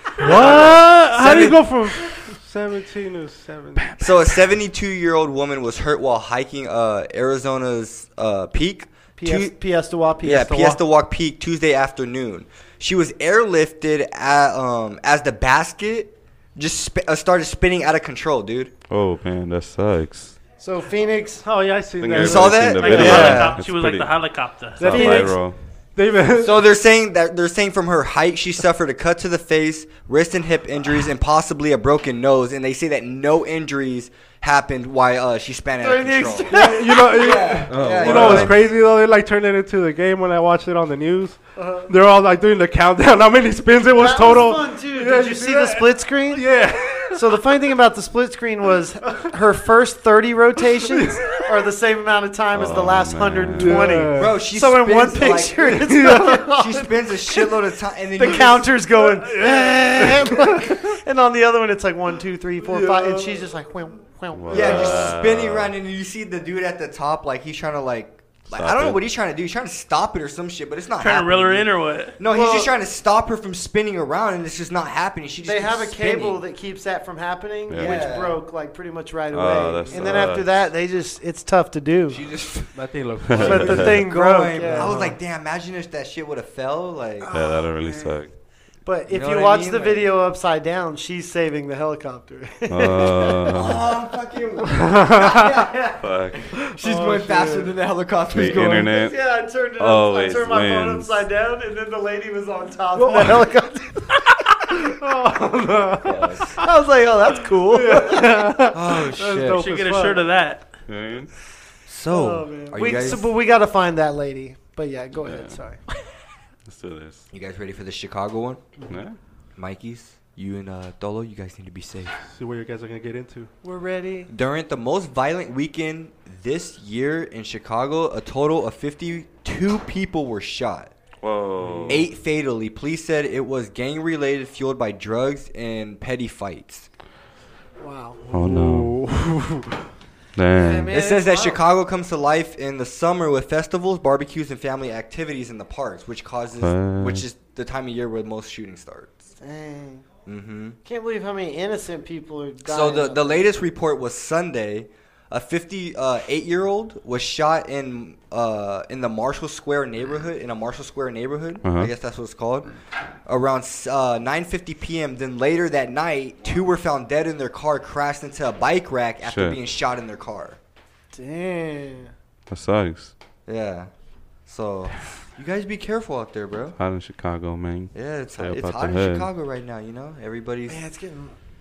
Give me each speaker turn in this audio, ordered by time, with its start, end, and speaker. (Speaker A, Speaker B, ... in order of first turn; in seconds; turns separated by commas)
Speaker A: 0.1-1.8, Speaker B: 0.2-4.0, Speaker A: 4.0-9.6, Speaker C: 9.2-10.8, Speaker A: 10.2-18.7, Speaker D: 18.9-20.4, Speaker C: 20.6-21.5, Speaker B: 21.4-23.5, Speaker D: 22.0-25.6, Speaker A: 22.1-23.6, Speaker E: 22.8-25.2, Speaker B: 24.8-26.6, Speaker C: 24.9-25.3, Speaker A: 26.3-38.7, Speaker C: 35.8-37.5, Speaker B: 36.5-47.4, Speaker D: 37.7-38.6, Speaker C: 41.6-41.9, Speaker C: 43.9-57.6, Speaker B: 50.8-51.5, Speaker D: 52.5-54.1, Speaker B: 53.5-54.4, Speaker A: 54.1-55.8, Speaker B: 55.6-56.4, Speaker A: 56.4-58.8, Speaker C: 58.1-65.1, Speaker B: 59.0-60.8, Speaker B: 62.6-63.5, Speaker D: 64.3-65.7, Speaker A: 64.5-76.4, Speaker D: 68.5-69.0, Speaker E: 71.0-72.2, Speaker C: 72.3-72.7, Speaker C: 75.4-82.3, Speaker D: 77.7-78.1, Speaker A: 77.7-78.4, Speaker D: 79.3-80.7, Speaker A: 80.0-80.2, Speaker A: 82.1-87.3, Speaker B: 82.7-84.1, Speaker D: 83.3-84.0, Speaker C: 83.3-85.0, Speaker B: 84.7-85.1, Speaker C: 87.3-88.1, Speaker D: 87.3-88.3, Speaker C: 88.8-93.6, Speaker A: 89.1-90.1, Speaker D: 92.7-93.9, Speaker A: 93.5-95.8, Speaker B: 94.8-95.5, Speaker C: 95.2-96.0, Speaker D: 96.0-96.5, Speaker B: 96.6-97.8, Speaker A: 96.7-99.0, Speaker D: 98.3-101.2, Speaker C: 98.8-104.2, Speaker B: 102.9-103.5, Speaker B: 104.8-106.4, Speaker A: 106.0-106.6, Speaker C: 106.6-108.7, Speaker B: 107.7-110.3, Speaker A: 108.7-109.7, Speaker E: 109.5-110.7, Speaker D: 110.9-111.3, Speaker A: 111.9-113.4, Speaker C: 112.1-115.8, Speaker D: 115.2-115.6, Speaker D: 116.7-117.3, Speaker A: 117.3-118.7, Speaker D: 118.9-119.2, Speaker A: 119.5-122.2, Speaker B: 122.3-123.5, Speaker C: 123.6-124.3, Speaker A: 124.3-130.9, Speaker D: 131.2-132.1, Speaker B: 131.6-132.1, Speaker A: 131.9-136.9, Speaker C: 137.8-138.2, Speaker B: 138.2-139.8, Speaker D: 138.3-139.0, Speaker D: 140.4-141.0, Speaker C: 140.5-141.6, Speaker A: 140.9-149.3, Speaker D: 146.6-147.3, Speaker C: 149.4-150.1, Speaker A: 150.3-150.8, Speaker C: 150.8-153.5, Speaker A: 152.6-170.6, Speaker D: 161.6-161.9, Speaker D: 169.2-169.6, Speaker C: 171.1-172.1, Speaker D: 172.5-173.1, Speaker A: 173.4-173.9, Speaker A: 174.4-176.8, Speaker D: 176.8-179.3, Speaker A: 177.9-180.8, Speaker C: 180.7-181.4